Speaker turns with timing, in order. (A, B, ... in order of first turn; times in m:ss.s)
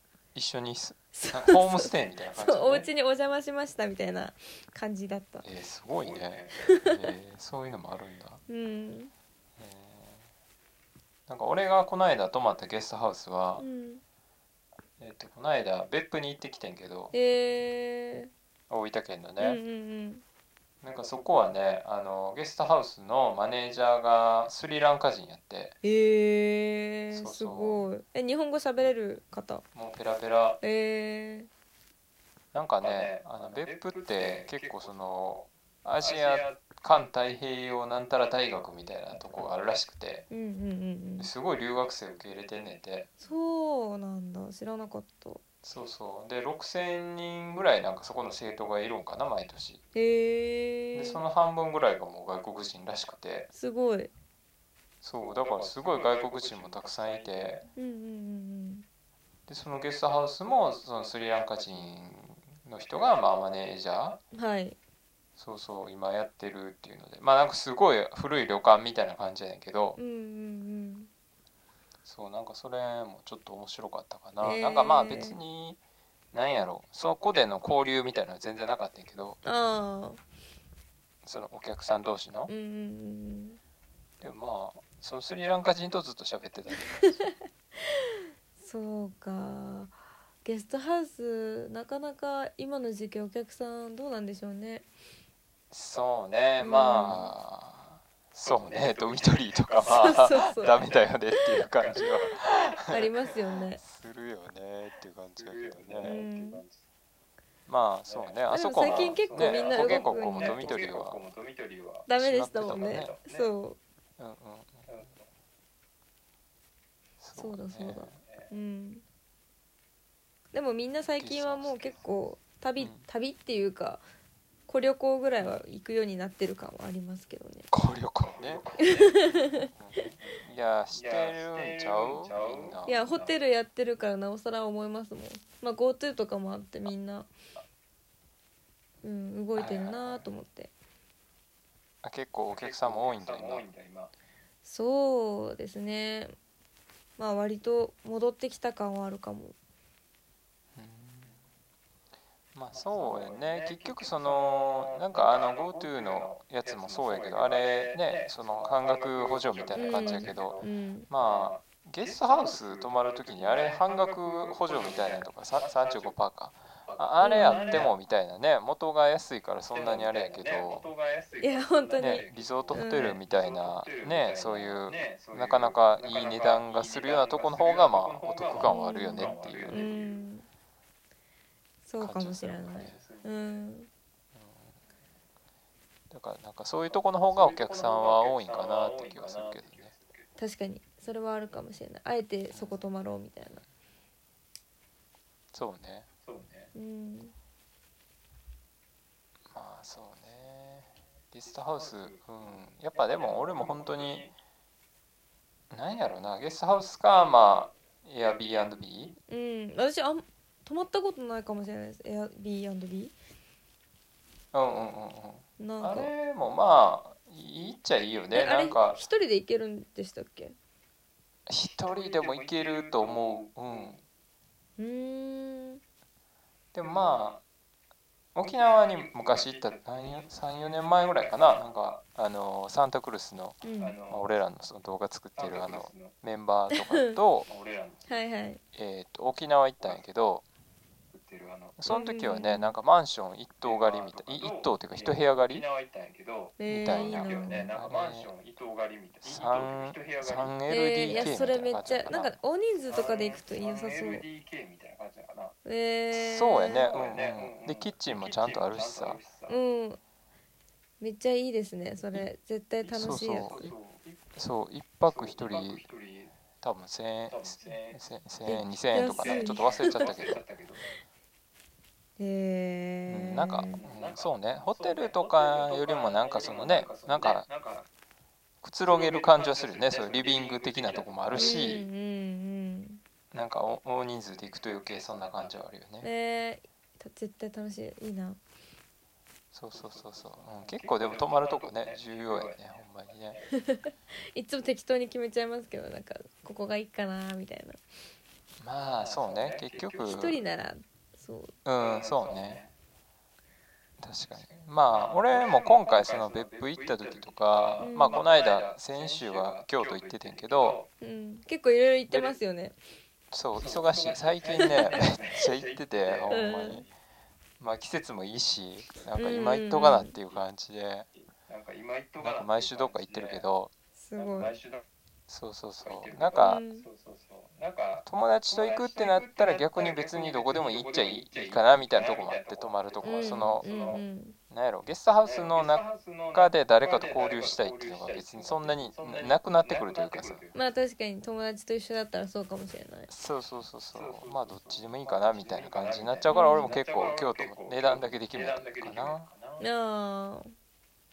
0:00.3-0:02.9 A
0:01.1-0:05.4 B
0:05.4-0:08.4 A
0:06.0-0:06.6 C
0:06.6-0:07.1 B
0:08.5-0:09.1 B
0:09.6-0:10.2 A
0:11.3-0:13.6 A
0:13.6-0:14.0 B
0:15.0-0:17.1 A
0:17.1-0:18.3 B
0:18.7-0:19.6 A
0:19.4-0:20.2 B
0:20.8-0:25.8 A
0:25.8-0:29.6 B
0:27.1-0:27.9 A
0:29.7-0:30.6 A
0:30.6-0:31.5 B
0:32.5-0:40.2 A
0:32.9-0:34.7 C
0:40.3-0:41.3 B
0:41.2-0:43.1 A
0:43.2-0:45.4 B
0:45.6-0:49.8 A
0:49.9-0:51.2 B
0:50.9-0:53.5 A
0:53.5-0:54.1 B
0:55.0-0:57.6 A
0:55.4-0:57.6 C
0:57.8-0:58.8 B
0:59.5-1:04.2 A
1:03.2-1:04.1 C
1:04.3-1:04.8 B
1:05.4-1:10.0 A
1:10.0-1:11.1 B
1:12.0-1:15.8 A
1:14.4-1:15.4 B
1:16.3-1:19.4 A
1:19.4-1:20.2 B
1:21.2-1:22.5 A
1:22.5-1:23.6 B
1:24.2-1:27.2 A
1:27.9-1:34.8 B
1:35.7-1:43.1 A
1:36.6-1:37.3 B
1:38.4-1:41.0 C
1:39.8-1:40.8 B
1:41.7-1:42.0 C
1:42.8-1:43.8 B
1:43.8-1:46.2 A
1:45.4-1:46.8 C
1:46.0-1:46.6 B
1:47.7-1:51.2 A
1:48.1-1:52.1 C
1:48.5-1:50.8 B
1:52.1-1:53.8 B
1:52.2-1:53.1 A
1:52.7-1:53.5 C
1:54.2-1:54.9 A
1:54.9-1:55.1 C
1:57.2-1:58.2 A
1:57.4-1:59.0 B
2:00.5-2:04.0 B
2:01.2-2:01.8 A
2:02.8-2:03.0 A
2:04.7-2:07.7 B
2:07.7-2:13.1 A
2:08.4-2:09.2 C
2:08.8-2:09.7 B
2:10.9-2:13.3 C
2:12.8-2:17.3 B
2:19.0-2:20.7 B
2:19.5-2:20.2 A
2:22.0-2:23.6 A
2:22.5-2:24.1 C
2:24.6-2:26.3 B
2:27.2-2:29.6 B
2:30.8-2:31.4 A
2:32.5-2:50.8 A
2:32.7-2:40.6 C
2:39.7-2:41.1 B
2:41.2-2:46.1 C
2:46.9-2:48.0 C
2:47.2-2:47.9 B
2:49.7-3:00.2 C
2:51.4-2:53.2 B
2:52.0-3:00.0 A
2:58.6-3:00.5 B
3:01.8-3:03.9 B
3:02.0-3:03.0 A
3:02.8-3:03.3 C
3:04.4-3:04.7 A
3:06.1-3:09.9 A
3:07.3-3:10.3 C
3:10.4-3:13.6 B
3:12.5-3:12.8 A
3:15.5-3:16.1 A
3:16.2-3:16.7 C
3:16.7-3:17.3 B
3:19.5-3:24.3 A
3:21.7-3:22.2 C
3:22.9-3:24.3 C
3:25.7-3:29.2 A
3:29.3-3:33.1 B
3:34.5-3:39.0 A
3:35.6-3:36.1 B
3:38.3-3:40.6 B
3:41.5-3:44.0 A
3:41.9-3:43.7 C
3:44.8-3:45.8 B
3:46.7-3:47.4 A
3:47.0-3:47.3 C
3:48.3-3:57.5 A
3:48.6-3:50.3 C
3:53.6-3:54.0 B
3:53.8-3:54.2 C
3:55.4-3:56.1 C
3:56.7-3:57.0 B
3:57.5-3:58.1 C
3:58.1-3:58.6 B
3:58.7-4:00.4 A
4:01.1-4:01.8 C
4:01.8-4:05.6 A
4:01.9-4:02.7 B
4:03.6-4:10.5 C
4:06.6-4:07.7 B
4:06.7-4:08.3 A
4:09.2-4:12.3 A
4:10.7-4:14.2 B
4:12.9-4:15.5 C
4:15.6-4:17.0 B
4:16.1-4:19.2 A
4:16.8-4:19.6 C
4:19.5-4:20.0 B
4:21.0-4:23.6 B
4:22.9-4:23.7 A
4:23.1-4:24.2 C
4:24.3-4:25.8 A
4:25.1-4:26.3 C
4:26.6-4:30.4 A
4:27.3-4:28.0 C
4:28.4-4:30.3 B
4:28.9-4:30.8 C
4:32.2-4:33.8 B
4:33.1-4:37.4 A
4:33.8-4:37.9 C
4:38.6-4:41.8 A
4:38.9-4:41.8 C
4:41.3-4:43.0 B
4:43.3-4:46.1 A
4:46.0-4:48.4 B
4:49.5-4:53.4 A
4:49.7-4:52.8 C
4:53.5-4:57.8 B
4:58.6-5:00.4 A
4:59.0-5:00.2 C
5:00.0-5:01.5 B
5:01.6-5:02.6 A
5:01.8-5:02.7 C
5:04.0-5:10.8 A
5:04.9-5:10.9 C
5:07.8-5:08.2 B
5:11.0-5:12.8 B
5:12.1-5:12.4 C
5:13.3-5:16.9 A
5:13.6-5:16.9 C
5:16.3-5:16.8 B
5:17.6-5:21.1 A
5:19.2-5:20.1 B
5:21.4-5:23.4 C
5:22.2-5:23.7 A
5:24.0-5:24.6 B
5:24.2-5:24.8 C
5:25.3-5:26.6 A
5:25.8-5:34.0 C
5:26.4-5:26.8 B
5:28.0-5:33.6 A
5:33.0-5:34.4 B
5:34.5-5:40.4 A
5:35.2-5:40.6 C
5:40.5-5:43.1 B
5:43.1-5:49.3 A
5:43.9-5:49.6 C
5:46.3-5:46.7 B
5:49.6-5:50.5 B